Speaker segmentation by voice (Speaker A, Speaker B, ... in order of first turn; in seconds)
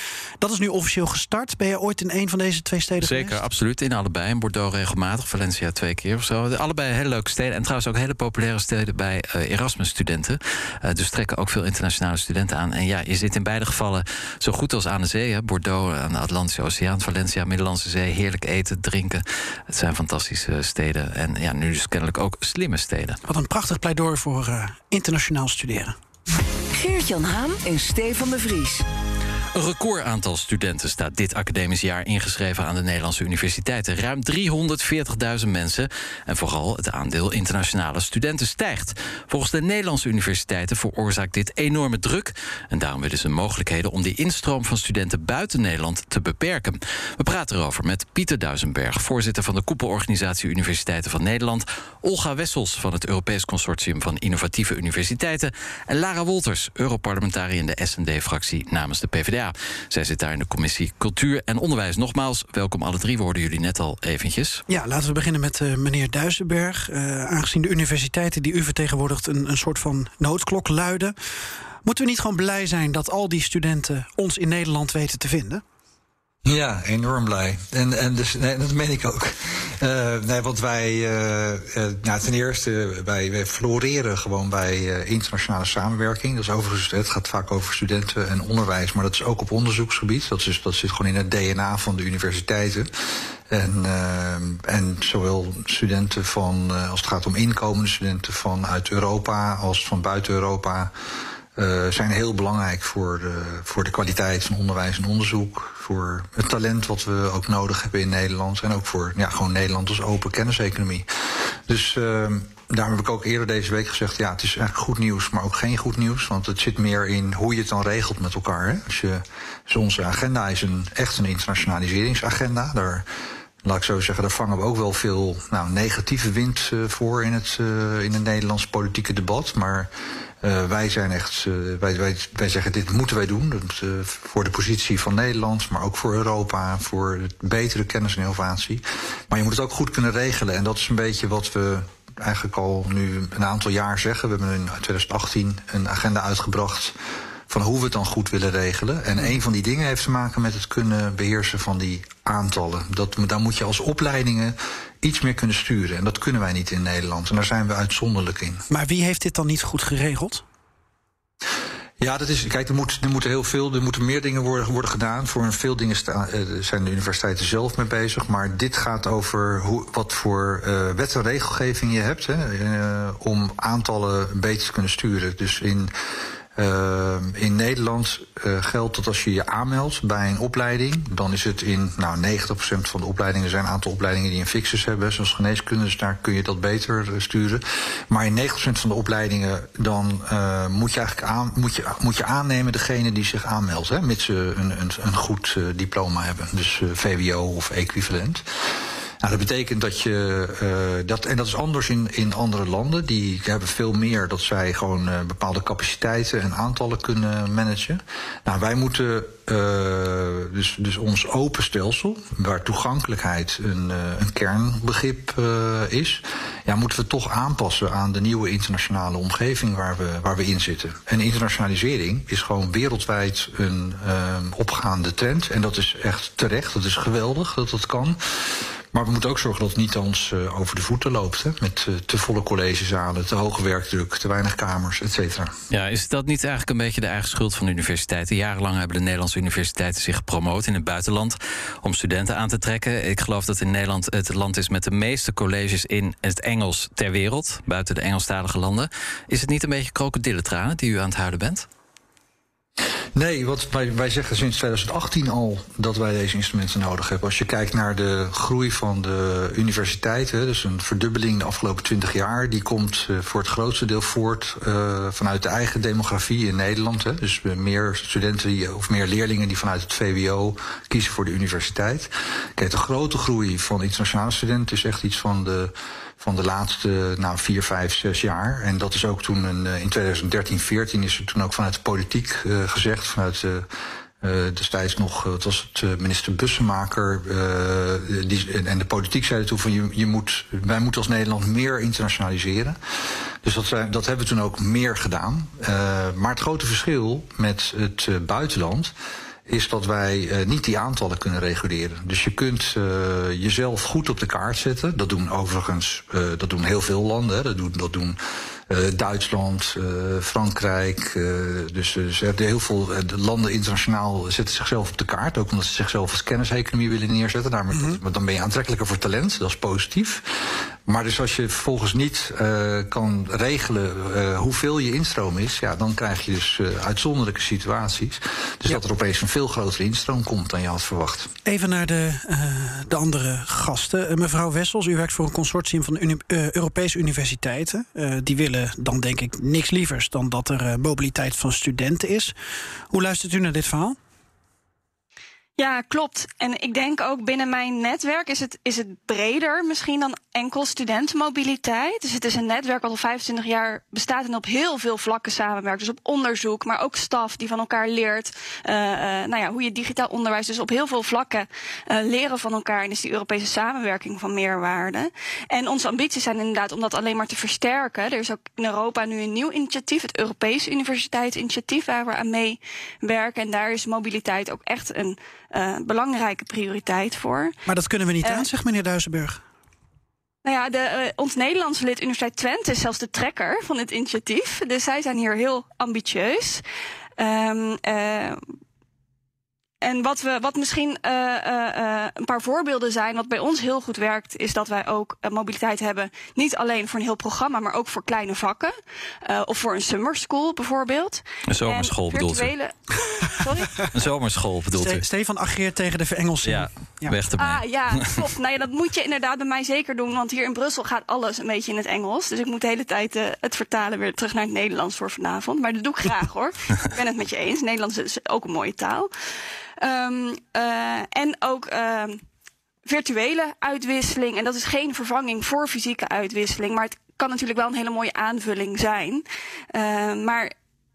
Speaker A: 0.4-3.4, 23.2-25.9, 64.7-71.1, 71.8-75.6, 158.7-160.4, 317.7-318.0, 331.4-342.3, 342.9-344.0, 377.7-379.4, 404.8-407.1
Speaker B: 3.0-23.2, 29.5-64.6, 235.7-251.7, 401.5-402.5, 403.9-405.0, 406.4-408.2
Speaker C: 26.7-28.8
Speaker D: 76.5-92.9, 93.5-100.9, 101.5-123.0, 123.6-129.9, 130.4-146.9, 147.5-158.6, 162.0-175.9, 176.6-198.4, 199.2-235.5, 253.1-283.7, 284.2-292.8, 293.4-298.9, 299.5-320.3, 320.9-331.3
Speaker E: 345.6-377.5, 378.2-378.5, 380.4-386.6, 387.2-388.4, 389.8-398.7, 399.2-403.8, 407.4-419.1, 419.8-422.2, 422.8-430.5